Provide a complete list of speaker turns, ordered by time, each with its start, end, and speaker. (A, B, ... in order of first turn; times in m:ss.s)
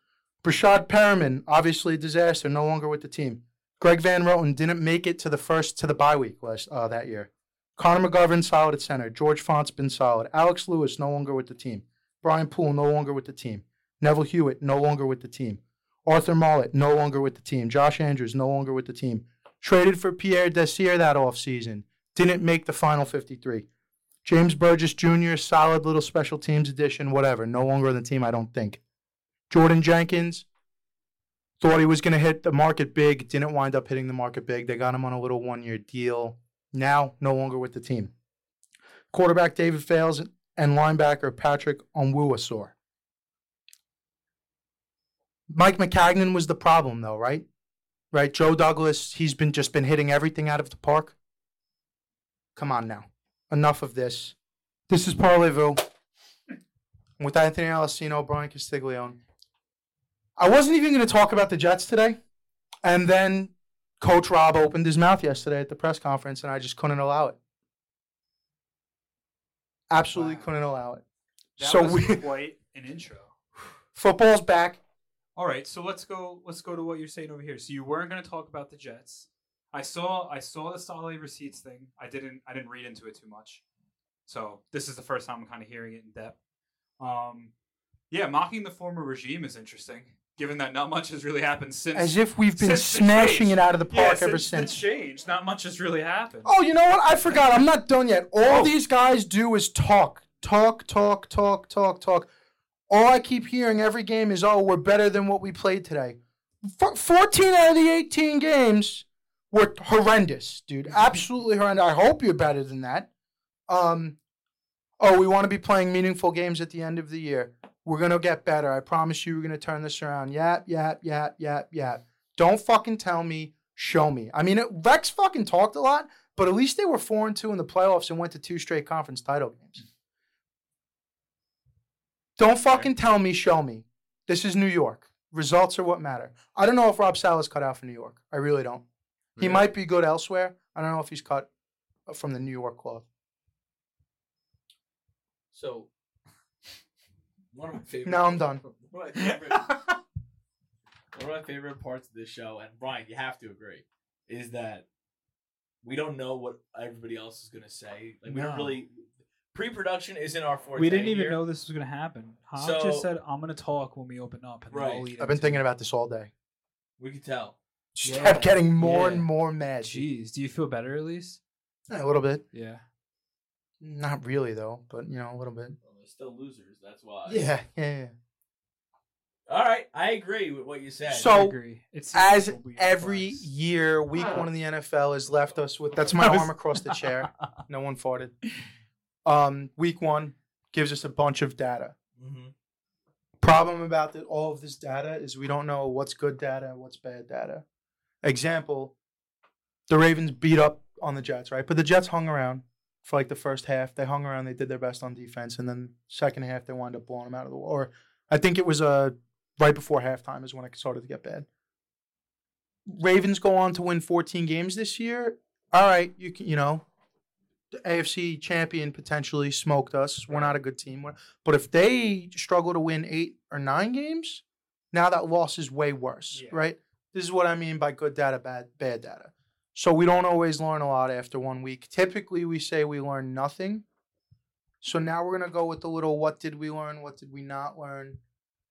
0:00.4-0:23.6 A
0:24.2-0:28.8 A
0:29.5-0:30.5 A
0:31.6-0:38.1 A
0:39.1-0:42.7 A
0:45.5-0:47.4 A
0:48.1-0:51.2 A
0:52.6-0:54.3 A
0:54.9-0:55.8 A
0:57.2-0:59.2 A
1:00.4-1:02.2 A
1:02.8-1:07.4 A
1:09.9-1:11.0 A
1:10.1-1:10.5 B
1:11.6-1:13.3 B
1:11.6-1:12.2 A
1:13.9-1:14.8 A
1:15.4-1:23.6 B
1:24.2-1:26.3 B
1:27.0-1:27.5 B
1:28.1-1:36.5 B
1:31.9-1:34.8 A
1:36.4-1:42.3 A
1:38.4-1:38.7 B
1:42.9-1:53.1 A
1:53.7-1:54.2 A
1:55.0-2:09.8 A
2:12.4-2:18.8 A
2:19.4-2:19.7 B
2:19.4-2:21.5 A
2:22.1-2:23.0 A
2:25.5-2:25.9 C
2:27.5-2:29.7 C
2:28.0-2:28.6 A
2:29.2-2:30.0 B
2:31.1-2:34.8 C
2:35.8-2:41.4 C
2:38.3-2:38.7 A
2:40.8-2:45.6 B
2:42.6-2:43.1 C
2:44.7-2:45.1 C
2:45.2-2:46.3 A
2:47.0-2:47.6 C
2:47.9-2:50.0 A
2:48.0-2:49.2 B
2:48.2-2:49.2 C
2:49.8-2:51.4 B
2:51.9-2:52.4 A
2:52.5-2:52.8 B
2:53.8-2:55.8 A
2:55.8-2:57.4 C
2:57.3-2:58.1 A
2:59.5-3:01.3 C
3:01.1-3:01.6 A
3:01.2-3:03.5 B
3:02.1-3:08.4 A
3:06.2-3:07.3 B
3:09.2-3:11.9 A
3:12.2-3:12.5 C
3:13.4-3:17.6 A
3:18.2-3:18.9 A
3:19.9-3:31.4 A
3:32.8-3:36.8 A
3:37.7-3:53.8 A
3:46.3-3:46.6 B
3:54.8-3:58.2 A